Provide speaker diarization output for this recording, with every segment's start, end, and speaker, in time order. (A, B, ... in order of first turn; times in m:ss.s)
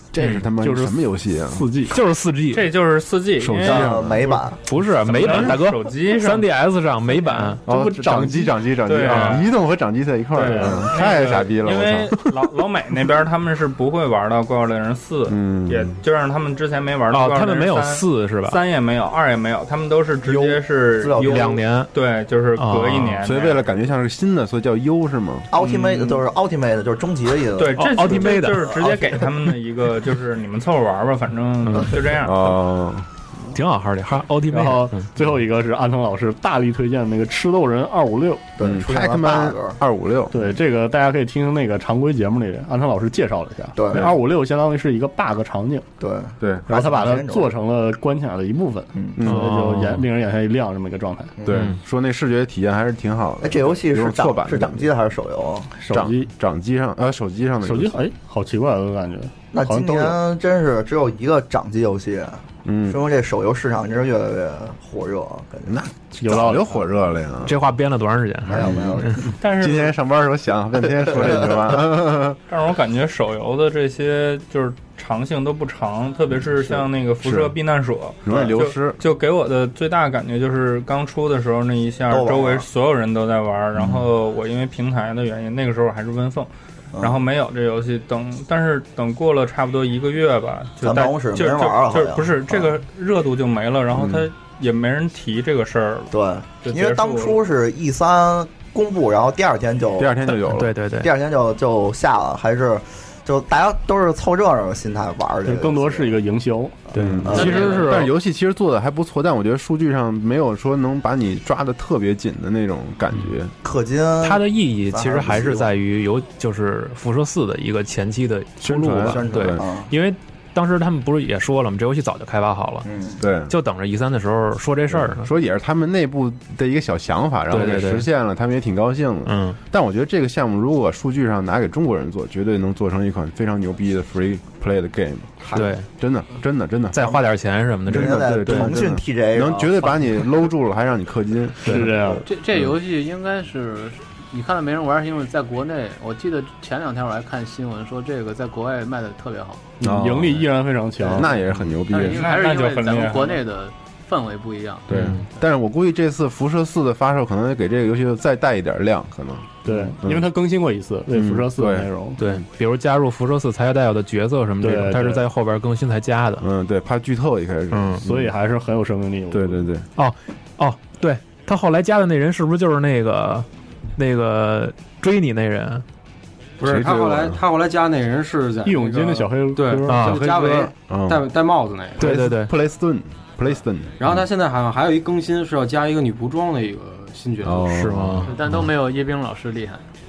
0:00.1-0:01.7 A
0:00.4-0:01.9 B
0:01.8-0:02.8 C
0:02.5-0:04.0 D
0:03.4-0:04.4 A
0:03.6-0:04.6 E
0:04.6-0:07.6 C
0:05.0-0:06.5 D
0:05.3-0:05.5 A
0:07.2-0:07.6 D
0:07.6-0:12.4 A
0:07.6-0:08.5 B
0:08.8-0:09.5 D
0:09.0-0:09.4 C
0:10.3-0:23.7 D
0:10.4-0:10.8 B
0:15.3-0:16.0 A
0:17.1-0:18.6 C
0:20.2-0:21.6 E
0:21.2-0:21.9 C
0:22.6-0:23.2 C
0:23.2-0:25.5 A
0:25.5-0:28.2 E
0:25.6-0:26.2 D
0:27.6-0:32.6 D
0:27.8-0:28.7 C
0:31.6-0:32.0 C
0:32.2-0:33.1 A
0:33.5-0:35.1 C
0:34.5-0:38.4 B
0:38.6-0:39.8 E
0:38.6-0:40.4 A
0:40.3-0:45.8 B
0:43.8-0:44.1 E
0:46.0-0:47.5 E
0:46.7-0:51.3 B
0:48.9-0:49.2 E
0:49.2-0:49.9 A
0:49.2-0:50.0 C
0:51.4-0:51.7 E
0:51.4-0:54.9 A
0:51.5-0:51.8 C
0:53.4-0:55.7 E
0:55.8-0:56.3 B
0:55.9-0:58.0 A
0:57.6-1:00.2 B
0:59.5-1:05.7 E
1:02.6-1:03.0 A
1:05.7-1:07.6 A
1:06.2-1:06.7 B
1:07.4-1:09.2 C
1:08.5-1:09.3 E
1:08.6-1:12.4 A
1:09.4-1:09.9 D
1:11.1-1:11.5 E
1:12.5-1:26.5 D
1:17.2-1:17.6 A
1:18.2-1:19.0 A
1:22.1-1:22.7 E
1:27.0-1:27.2 E
1:27.0-1:37.4 D
1:30.8-1:32.7 E
1:36.1-1:46.1 E
1:40.0-1:40.7 A
1:40.5-1:41.1 C
1:45.4-1:47.7 B
1:46.9-1:48.1 C
1:46.9-1:53.5 A
1:47.0-1:47.8 E
1:53.6-1:55.7 E
1:54.2-2:02.9 C
1:58.6-1:59.6 A
1:58.9-1:59.9 E
2:02.8-2:03.2 E
2:03.2-2:03.5 A
2:03.5-2:05.3 C
2:04.9-2:17.0 A
2:07.5-2:08.1 C
2:09.2-2:09.6 C
2:15.5-2:15.9 C
2:16.9-2:18.7 C
2:17.8-2:19.9 E
2:17.9-2:22.7 A
2:21.6-2:22.2 B
2:22.2-2:29.7 F
2:29.8-2:30.5 A
2:29.8-2:31.3 B
2:31.1-2:32.3 A
2:31.9-2:35.0 F
2:32.0-2:33.4 D
2:34.9-2:40.2 A
2:34.9-2:35.2 C
2:39.6-2:42.2 B
2:41.1-2:42.4 A
2:42.2-2:46.4 C
2:44.6-2:45.2 B
2:46.4-2:48.3 A
2:47.7-2:48.0 C
2:48.0-2:49.6 B
2:49.3-2:49.9 A
2:50.0-2:55.8 C
2:56.6-3:02.1 G
2:56.6-2:57.4 A
2:58.6-3:00.0 B
2:59.8-3:00.3 C
2:59.9-3:01.3 A
3:02.0-3:04.2 A
3:02.0-3:02.5 C
3:04.0-3:07.8 G
3:07.4-3:08.3 A
3:07.7-3:08.3 C
3:08.3-3:09.8 F